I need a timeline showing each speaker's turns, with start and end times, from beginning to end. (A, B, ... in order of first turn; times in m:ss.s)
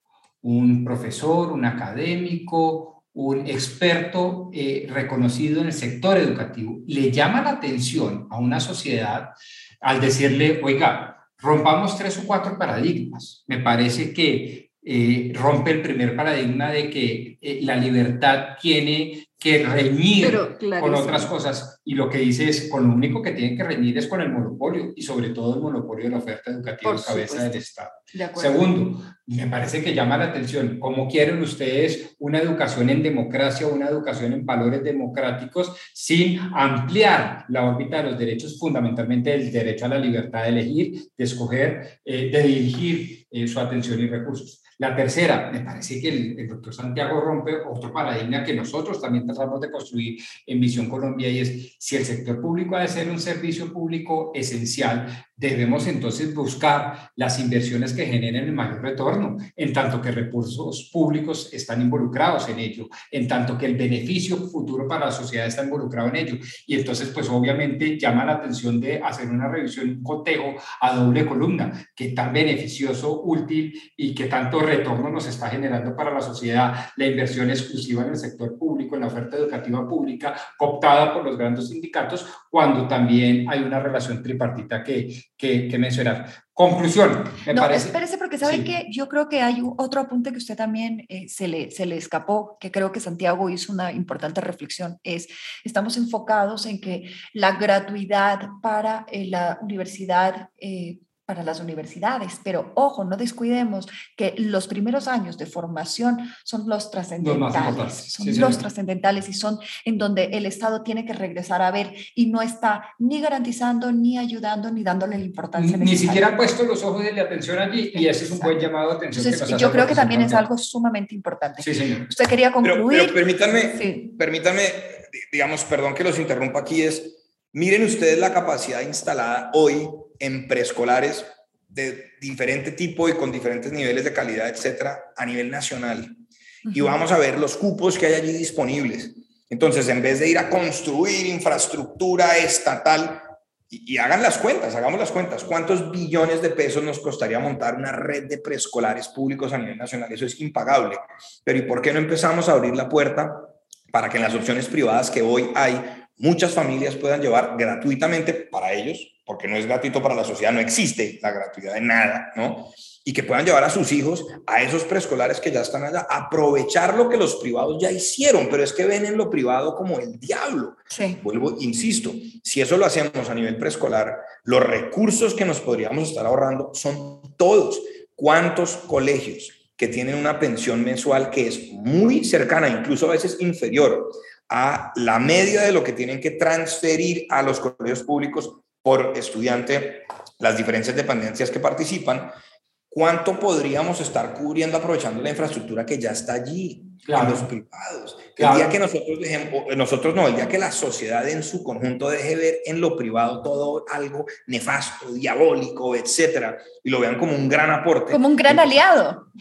0:00.4-1:28.7 A
0:20.2-0:21.3 B
0:26.8-0:27.6 B
0:28.1-0:28.7 B
1:27.5-1:56.3 B
1:47.2-1:48.6 A
1:55.6-2:00.4 A
1:57.9-1:58.5 B
1:59.1-2:04.1 B
2:01.6-2:02.1 A
2:02.6-2:16.2 C
2:16.7-3:12.3 C
2:50.9-2:51.2 B
3:12.9-3:28.8 C
3:17.0-3:17.5 A
3:18.4-3:18.7 A
3:28.1-3:29.3 B